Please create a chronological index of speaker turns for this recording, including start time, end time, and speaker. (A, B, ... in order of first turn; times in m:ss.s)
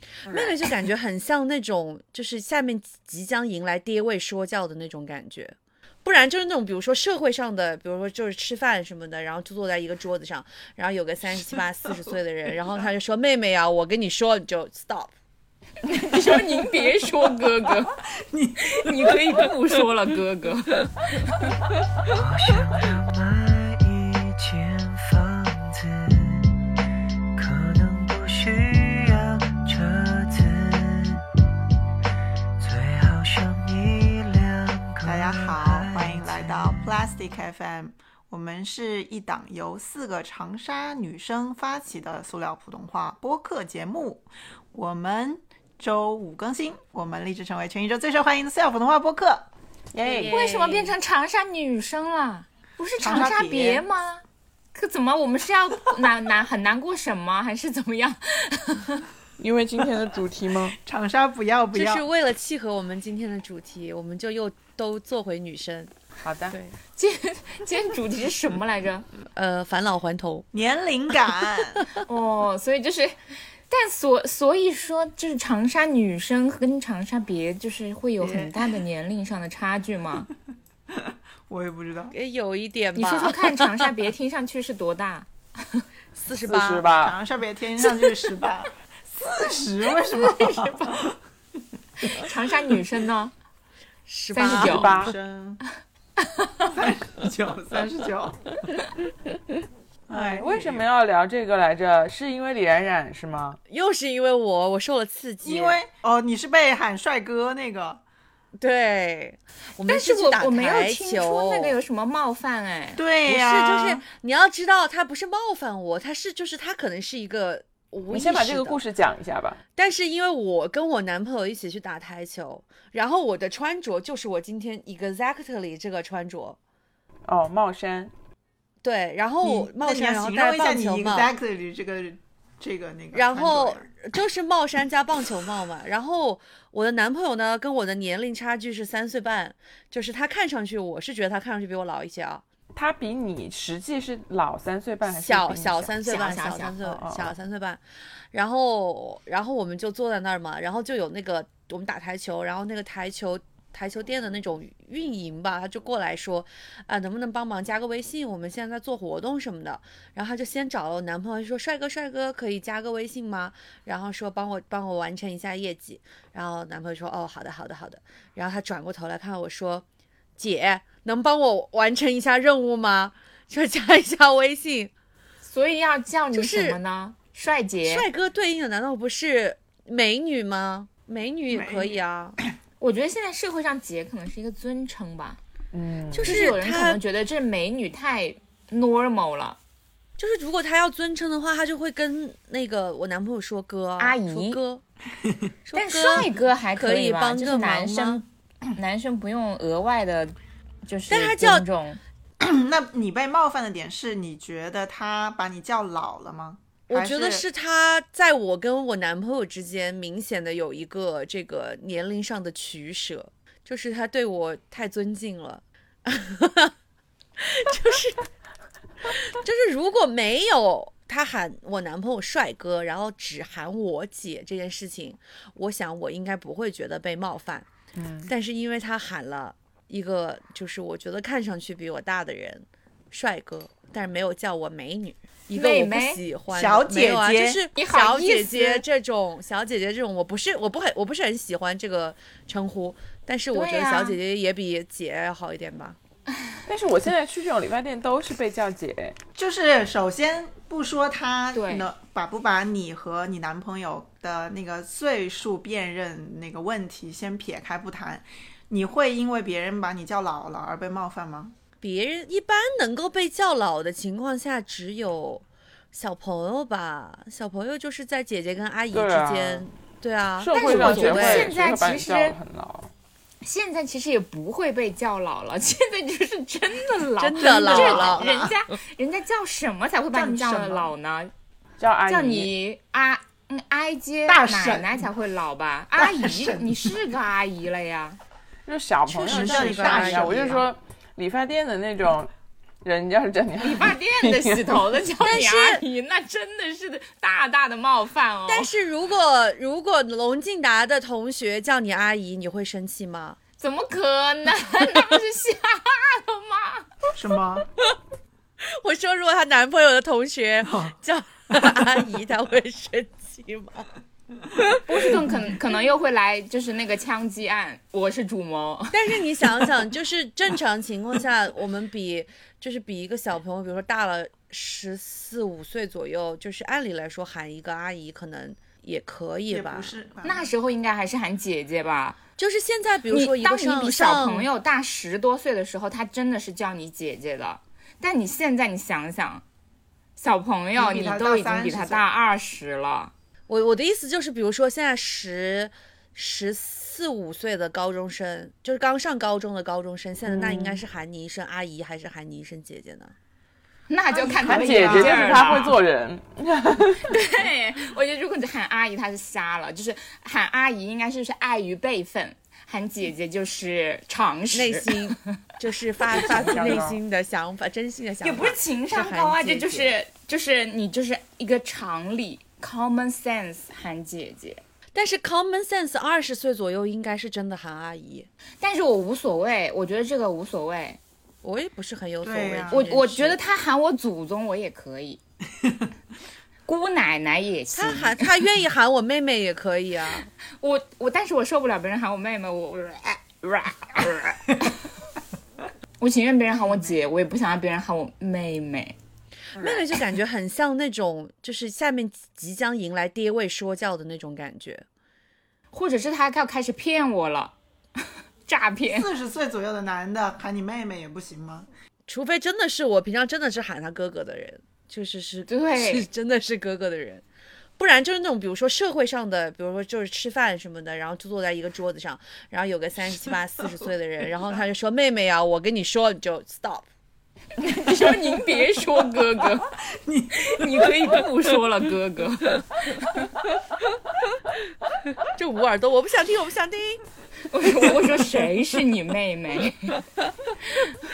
0:00.2-0:15.1 A
0:15.8-0:18.0 B
0:18.3-0:19.5 C
0:18.6-0:21.5 B
0:22.1-0:26.4 D
0:27.4-0:31.2 D
0:32.6-0:37.0 D
0:35.0-0:49.5 C
0:49.9-0:50.4 E
0:50.0-0:54.2 B
0:50.1-0:50.9 A
0:53.0-0:53.8 C
0:54.7-0:59.0 B
0:59.4-1:00.8 E
1:00.8-1:02.0 C
1:01.7-1:05.9 A
1:06.2-1:06.6 E
1:06.5-1:06.8 A
1:07.0-1:09.0 B
1:09.3-1:10.5 A
1:10.5-1:11.9 C
1:12.0-1:13.2 B
1:13.7-1:20.3 B
1:18.2-1:18.5 C
1:20.9-1:22.1 C
1:22.1-1:23.5 A
1:22.9-1:25.8 B
1:26.1-1:26.9 A
1:26.4-1:27.2 E
1:27.0-1:31.2 C
1:30.1-1:31.0 B
1:32.0-1:33.3 B
1:34.1-1:35.1 A
1:34.3-1:34.9 B
1:34.5-1:35.1 E
1:34.5-1:35.6 C
1:36.2-1:36.7 B
1:36.7-1:38.4 C
1:40.1-1:40.8 C
1:40.1-1:43.6 E
1:43.7-1:45.8 A
1:45.4-1:48.0 C
1:48.6-1:51.8 A
1:49.9-1:53.0 B
1:53.0-1:54.0 C
1:53.2-1:58.8 A
1:58.1-1:59.6 E
1:59.8-2:06.6 A
2:07.3-2:08.1 E
2:08.8-2:11.3 A
2:09.4-2:13.9 C
2:13.1-2:22.4 A
2:22.7-2:27.3 E
2:25.0-2:27.8 A
2:26.0-2:26.8 B
2:28.3-2:49.8 A
2:50.4-2:54.9 A
2:55.4-2:58.1 B
2:56.3-2:56.8 A
2:57.8-3:02.4 A
3:01.5-3:02.0 C
3:02.8-3:05.4 B
3:05.7-3:06.4 E
3:06.1-3:07.0 A
3:06.2-3:09.6 B
3:10.2-3:14.8 A
3:14.0-3:14.6 B
3:15.6-3:18.2 A
3:15.7-3:20.3 B
3:20.8-3:22.0 B
3:21.1-3:21.6 A
3:22.4-3:27.4 C
3:26.9-3:36.7 A
3:37.4-3:38.3 A
3:39.0-3:47.7 A
3:48.0-3:48.3 E
3:48.2-4:06.0 A
3:55.5-3:56.2 B
3:56.5-3:57.6 C
3:57.7-3:58.8 B
4:03.5-4:04.2 B
4:06.6-4:09.2 E
4:09.4-4:21.5 C
4:11.5-4:11.9 B
4:21.8-4:31.6 A
4:28.9-4:29.6 E
4:30.4-4:32.9 E
4:30.5-4:32.4 B
4:33.4-4:41.3 B
4:37.2-4:38.3 A
4:37.6-4:38.5 C
4:40.1-4:40.9 C
4:41.8-4:42.5 E
4:42.0-4:48.2 B
4:44.3-4:45.1 C
4:46.0-4:47.0 C
4:48.6-4:52.3 E
4:49.1-4:50.6 A
4:49.2-4:50.6 C
4:52.8-4:54.8 E
4:53.6-4:58.7 B
4:55.2-4:55.8 A
4:58.5-5:03.4 A
5:03.6-5:06.9 B
5:07.1-5:07.7 C
5:08.6-5:13.9 A
5:10.6-5:10.9 C
5:14.8-5:19.2 B
5:18.9-5:29.9 A
5:29.5-5:30.5 C
5:30.2-5:32.2 B
5:32.4-5:34.5 A
5:33.1-5:39.4 B
5:40.2-5:43.1 B
5:40.7-5:42.0 C
5:43.5-5:53.1 A
5:50.2-5:50.8 E
5:53.9-5:55.8 B
5:54.1-5:55.5 C
5:54.4-5:57.2 E
5:57.0-6:05.2 B
6:04.5-6:09.9 A
6:06.1-6:07.0 E
6:06.2-6:06.8 B
6:08.2-6:14.6 B
6:14.9-6:18.3 A
6:18.6-6:21.0 B
6:21.4-6:23.4 A
6:22.2-6:22.8 C
6:22.7-6:25.2 B
6:26.6-6:28.3 B
6:27.7-6:30.3 A
6:30.6-6:34.7 B
6:36.0-6:39.0 B
6:39.6-6:44.8 A
6:45.7-6:47.5 B
6:48.4-6:49.1 B
6:48.9-6:51.7 C
6:52.1-6:57.2 A
6:55.5-6:56.0 B
6:57.8-7:06.9 A
7:07.6-7:09.8 B
7:10.0-7:11.2 C
7:10.4-7:12.6 B
7:15.2-7:17.0 A
7:17.5-7:20.0 B